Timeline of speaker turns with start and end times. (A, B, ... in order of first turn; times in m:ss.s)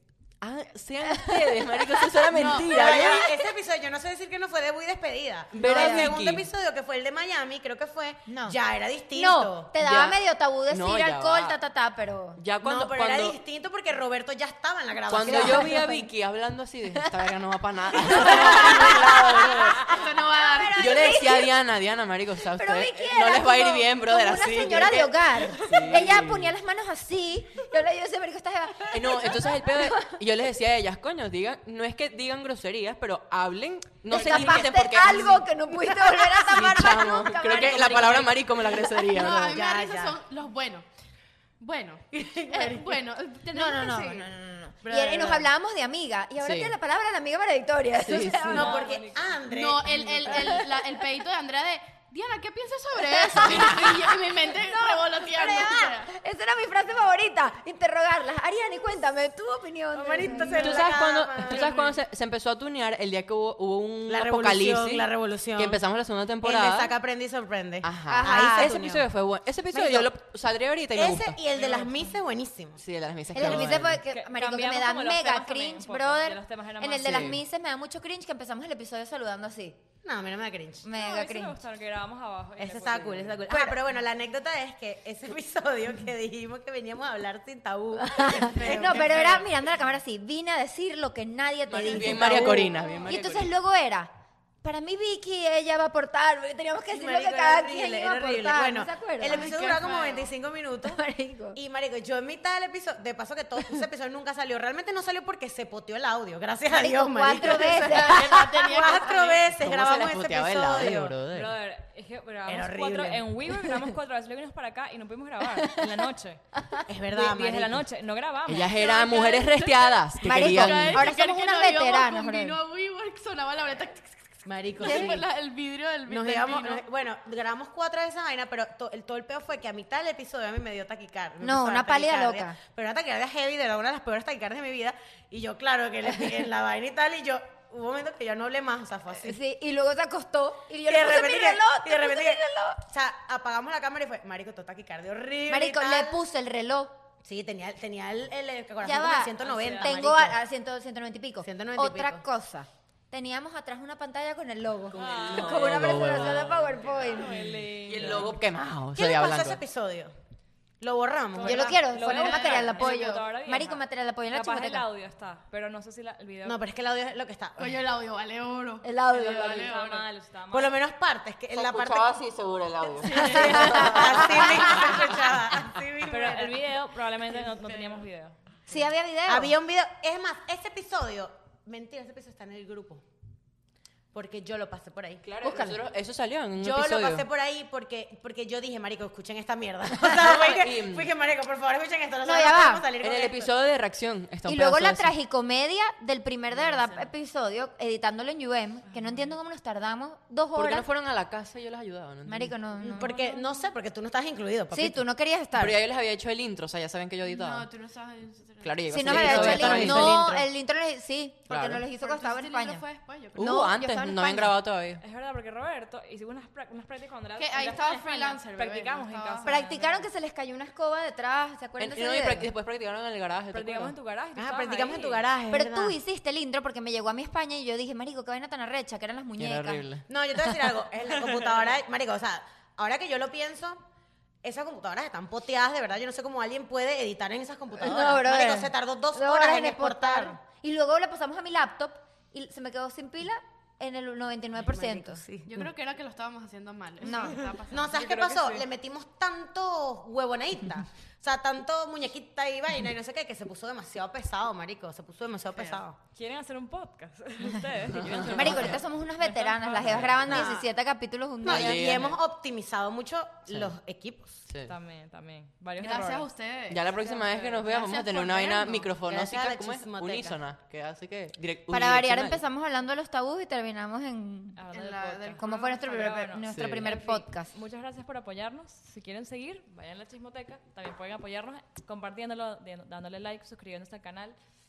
0:00.4-0:03.3 A
0:01.1-0:03.3 B
0:02.3-0:09.7 C
0:02.4-0:02.8 D
0:05.5-0:06.5 A
0:05.6-0:06.2 B
0:08.3-0:08.6 B
0:09.1-0:12.4 B
0:09.8-0:11.6 A
0:12.4-0:13.4 A
0:12.6-0:15.8 C
0:15.1-0:20.0 A
0:15.2-0:16.1 B
0:16.9-0:17.2 B
0:17.9-0:19.8 B
0:18.3-0:19.0 C
0:19.8-0:21.0 D
0:20.4-0:21.5 B
0:20.7-0:26.5 A
0:22.6-0:30.1 B
0:28.9-0:39.6 A
0:34.1-0:39.0 B
0:34.1-0:34.6 D
0:39.0-0:40.8 D
0:39.4-0:40.2 C
0:41.6-0:44.3 D
0:42.1-0:43.0 C
0:43.5-0:48.9 B
0:44.8-0:45.5 D
0:46.4-0:46.7 A
0:48.0-0:48.7 A
0:48.5-0:49.4 E
0:48.5-0:50.6 C
0:49.5-0:56.1 D
0:50.2-0:51.0 B
0:53.0-1:00.9 B
0:59.9-1:02.0 C
1:00.2-1:00.6 D
1:00.6-1:06.9 A
1:04.1-1:05.8 C
1:06.4-1:09.0 C
1:07.8-1:11.4 A
1:08.1-1:08.8 B
1:09.7-1:10.1 B
1:10.9-1:12.8 C
1:12.8-1:14.0 A
1:13.3-1:19.8 B
1:13.8-1:17.4 E
1:17.0-1:17.4 A
1:20.0-1:20.9 C
1:20.8-1:21.6 B
1:20.9-1:23.4 E
1:22.6-1:29.4 C
1:23.5-1:23.8 B
1:28.0-1:34.1 B
1:28.2-1:29.5 D
1:31.7-1:33.5 A
1:31.9-1:32.8 C
1:34.6-1:39.5 B
1:36.9-1:41.0 C
1:39.2-1:40.3 D
1:40.8-1:41.6 B
1:41.5-1:51.1 C
1:46.7-1:48.5 B
1:47.3-1:49.5 D
1:49.6-1:51.5 A
1:51.3-1:56.4 E
1:52.4-1:53.2 C
1:55.6-1:56.8 B
1:56.9-1:57.8 C
1:57.1-1:58.8 E
1:58.5-2:01.1 A
1:58.7-2:06.8 D
2:00.2-2:02.6 B
2:00.2-2:00.8 C
2:04.4-2:05.2 C
2:04.8-2:05.2 B
2:06.1-2:19.4 C
2:11.4-2:12.6 B
2:19.1-2:22.8 B
2:20.8-2:26.2 C
2:25.5-2:27.0 B
2:27.2-2:30.4 C
2:28.8-2:37.5 B
2:29.4-2:30.0 E
2:31.4-2:32.2 C
2:34.9-2:39.6 A
2:34.9-2:35.8 E
2:37.0-2:38.3 E
2:38.9-2:40.1 C
2:40.8-2:41.8 C
2:41.3-2:46.6 E
2:41.4-2:44.8 B
2:41.9-2:43.2 D
2:46.4-2:47.8 C
2:47.6-2:50.0 D
2:48.8-2:49.7 B
2:49.1-2:50.8 E
2:50.5-2:52.1 C
2:51.5-2:55.0 A
2:53.0-2:54.0 D
2:53.0-2:56.6 C
2:53.2-2:54.2 B
2:56.0-2:58.4 E
2:57.4-2:57.9 D
2:58.7-2:59.5 B
2:59.3-3:03.0 C
3:04.1-3:05.3 C
3:05.2-3:07.3 A
3:05.4-3:05.8 B
3:06.6-3:13.5 C
3:10.1-3:11.1 A
3:12.2-3:12.9 B
3:13.0-3:15.1 A
3:14.4-3:20.8 B
3:20.6-3:22.5 A
3:22.2-3:23.2 B
3:22.8-3:25.0 C
3:22.9-3:23.4 D
3:24.7-3:25.8 B
3:25.5-3:27.7 A
3:27.2-3:29.7 D
3:28.6-3:30.5 A
3:28.9-3:32.8 B
3:29.1-3:30.0 C
3:31.5-3:31.8 A
3:31.8-3:33.6 D
3:33.4-3:35.0 A
3:33.4-3:34.6 B
3:35.0-3:40.0 E
3:37.4-3:39.6 D
3:39.4-3:42.5 B
3:41.8-3:43.9 A
3:43.5-3:45.2 E
3:44.4-3:46.0 C
3:45.5-3:49.8 B
3:49.4-3:50.0 A
3:50.1-3:53.8 C
3:54.4-4:00.4 C
3:57.7-4:05.2 B
4:04.6-4:05.7 C
4:05.4-4:08.4 D
4:07.0-4:07.5 B
4:07.7-4:16.0 C
4:07.9-4:08.6 E
4:15.5-4:15.8 D
4:16.1-4:20.2 E
4:17.8-4:18.8 A
4:18.3-4:22.0 B
4:19.8-4:20.5 A
4:20.3-4:20.6 D
4:21.4-4:24.4 C
4:21.4-4:22.2 A
4:24.5-4:24.7 A
4:24.6-4:26.3 E
4:25.8-4:28.8 D
4:26.7-4:32.4 A
4:29.0-4:30.4 C
4:31.7-4:34.6 B
4:34.6-4:44.4 E
4:34.7-4:36.2 D
4:35.4-4:37.5 B
4:36.5-4:36.9 A